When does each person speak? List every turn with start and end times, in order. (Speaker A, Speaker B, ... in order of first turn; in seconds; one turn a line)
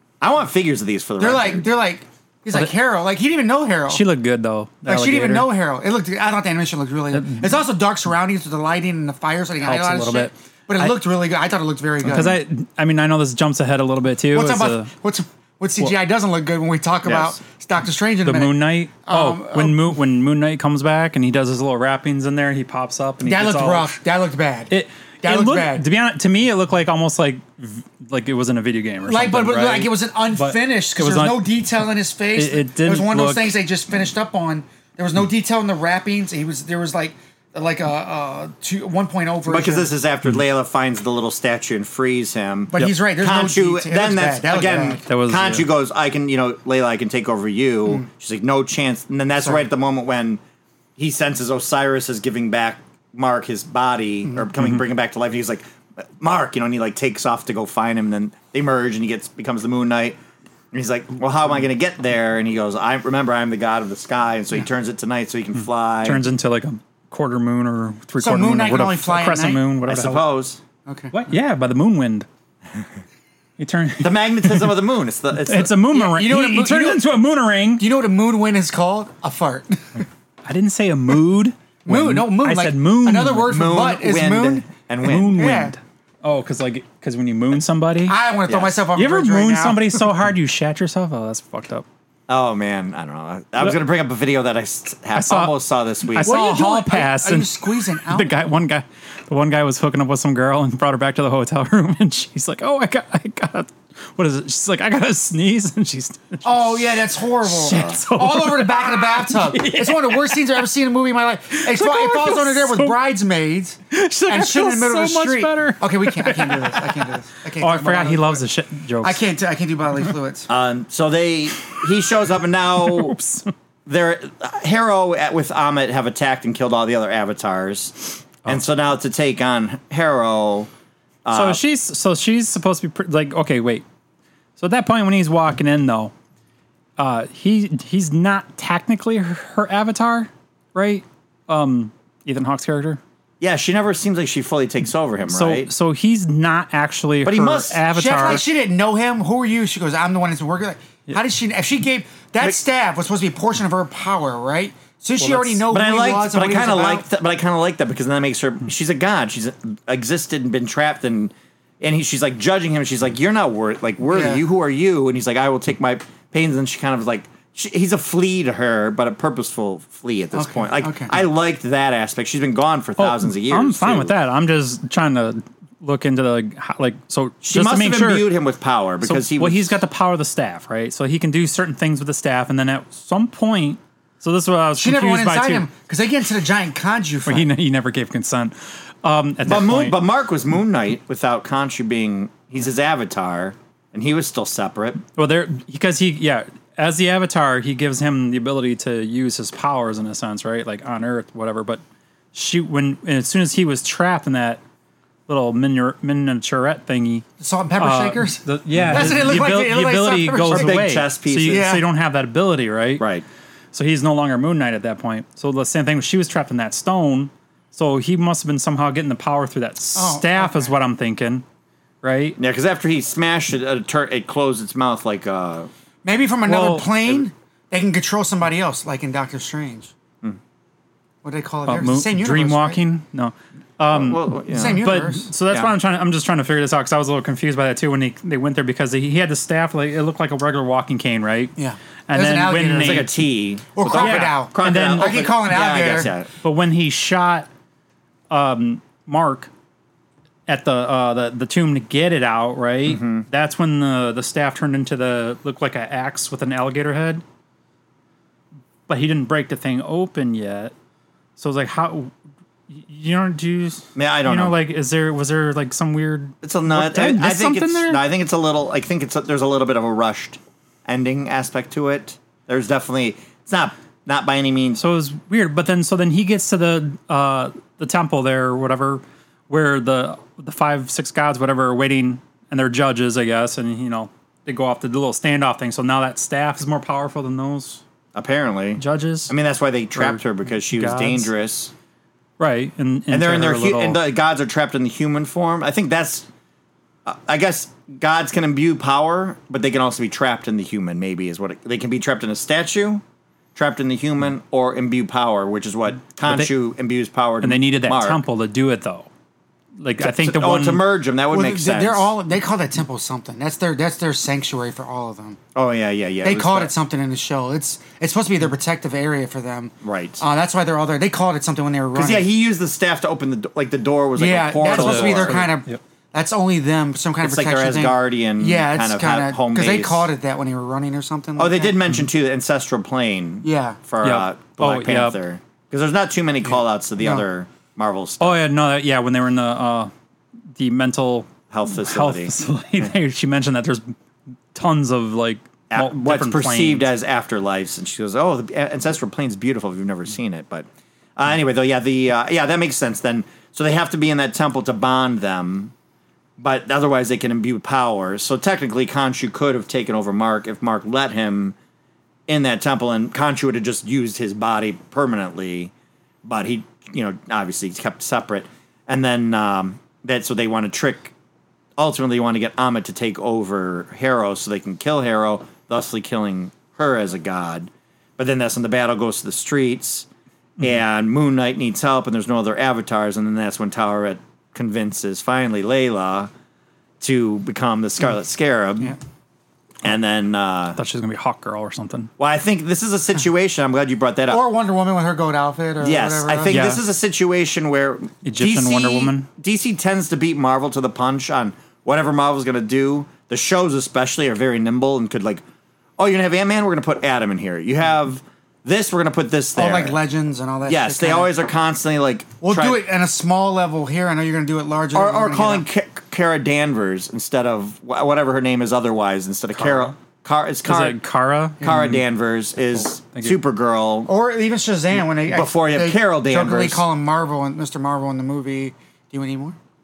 Speaker A: 0.2-1.7
Speaker B: 1.2-4.0
Speaker C: 3.9-5.5
Speaker B: 4.9-12.4
Speaker C: 7.1-7.5
Speaker C: 9.6-10.9
Speaker C: 12.0-14.9
Speaker B: 14.3-19.9
Speaker A: 17.1-17.3
Speaker C: 18.2-23.9
Speaker B: 23.2-24.7
Speaker C: 24.7-31.5
Speaker B: 25.2-25.9
Speaker B: 29.1-39.9
Speaker C: 32.4-33.6
Speaker A: 39.5-50.4
Speaker B: 42.7-45.0
Speaker C: 45.1-45.7
Speaker A: 51.0-60.2
Speaker A: 60.7-66.2
Speaker C: 66.0-70.3
Speaker B: 68.2-69.6
Speaker A: 69.9-70.6
Speaker B: 70.9-71.2
Speaker C: 71.1-72.3
Speaker C: 73.6-74.8
Speaker A: 74.0-75.7
Speaker C: 75.4-77.8
Speaker B: 75.9-77.1
Speaker B: 77.8-80.0
Speaker C: 80.5-83.6
Speaker B: 81.9-84.7
Speaker A: 83.5-85.4
Speaker C: 85.0-88.2
Speaker B: 85.3-85.8
Speaker B: 88.1-89.9
Speaker A: 88.5-88.8
Speaker C: 89.0-91.8
Speaker A: 92.3-96.3
Speaker C: 95.2-95.5
Speaker C: 96.0-110.6
Speaker B: 96.2-98.3
Speaker B: 106.4-118.4
Speaker C: 111.6-113.0
Speaker C: 113.9-119.2
Speaker B: 119.0-120.5
Speaker A: 120.5-123.2
Speaker C: 122.8-123.5
Speaker A: 123.9-130.7
Speaker A: 131.2-131.6
Speaker C: 131.3-133.8
Speaker C: 134.6-136.1
Speaker C: 137.0-143.0
Speaker A: 143.4-145.7
Speaker C: 145.3-148.4
Speaker A: 147.2-147.8
Speaker B: 147.9-157.1
Speaker C: 155.2-155.6
Speaker A: 155.7-174.2
Speaker B: 164.1-164.4
Speaker B: 170.3-171.1
Speaker C: 173.0-178.3
Speaker A: 177.4-179.8
Speaker C: 179.0-185.7
Speaker B: 184.8-187.5
Speaker C: 187.3-190.0
Speaker A: 189.4-195.0
Speaker C: 195.2-201.8
Speaker C: 202.3-204.6
Speaker C: 205.3-207.2
Speaker B: 207.4-210.8
Speaker C: 207.8-213.1
Speaker A: 210.5-211.7
Speaker B: 211.5-211.8
Speaker A: 213.0-213.2
Speaker C: 213.7-221.4
Speaker B: 219.9-220.7
Speaker C: 222.0-222.4
Speaker A: 222.4-225.7
Speaker B: 226.1-229.9
Speaker C: 226.5-226.9
Speaker B: 231.2-232.8
Speaker C: 231.7-241.6
Speaker A: 233.9-234.9
Speaker B: 234.5-235.3
Speaker B: 241.6-243.1
Speaker C: 242.1-243.1
Speaker A: 242.8-246.3
Speaker B: 243.7-246.1
Speaker C: 243.9-245.3
Speaker C: 246.4-247.5
Speaker C: 248.3-249.5
Speaker C: 250.5-257.2
Speaker A: 252.9-253.2
Speaker C: 258.9-260.7
Speaker C: 261.4-262.1
Speaker C: 262.7-268.0
Speaker A: 263.9-264.6
Speaker A: 266.4-274.8
Speaker C: 274.8-287.8
Speaker A: 288.1-291.7
Speaker C: 288.8-289.3
Speaker C: 289.9-291.3
Speaker C: 292.4-294.0
Speaker A: 293.1-296.3
Speaker A: 297.1-303.0
Speaker A: 303.6-308.2
Speaker C: 306.2-306.5
Speaker C: 307.4-309.1
Speaker C: 309.8-310.8
Speaker A: 310.0-312.1
Speaker B: 311.3-315.4
Speaker A: 315.6-316.7
Speaker B: 316.2-322.3
Speaker A: 319.8-320.2
Speaker A: 321.9-325.5
Speaker B: 324.2-331.8
Speaker C: 324.6-325.8
Speaker A: 327.2-330.1
Speaker A: 331.4-338.4
Speaker B: 333.4-333.8
Speaker C: 334.0-335.2
Speaker B: 337.0-337.2
Speaker C: 338.2-339.9
Speaker C: 340.5-343.9
Speaker A: 341.5-342.3
Speaker C: 344.5-346.9
Speaker A: 345.7-355.7
Speaker A: 356.4-361.6
Speaker A: 362.3-365.7
Speaker A: 366.2-371.1
Speaker A: 371.8-380.1
Speaker A: 380.6-386.3
Speaker A: 387.0-389.0
Speaker A: 389.8-390.8
Speaker C: 390.8-392.1
Speaker A: 392.2-394.4
Speaker B: 394.3-396.7
Speaker A: 395.8-405.4
Speaker C: 396.5-396.8
Speaker C: 398.2-399.3
Speaker A: 406.0-410.0
Speaker B: 409.6-411.3
Speaker A: 410.7-412.9
Speaker B: 412.4-415.7
Speaker A: 414.9-421.0
Speaker C: 420.6-422.0
Speaker A: 421.6-424.1
Speaker B: 421.6-421.9
Speaker C: 423.1-423.4
Speaker B: 424.1-429.6
Speaker A: 425.1-426.8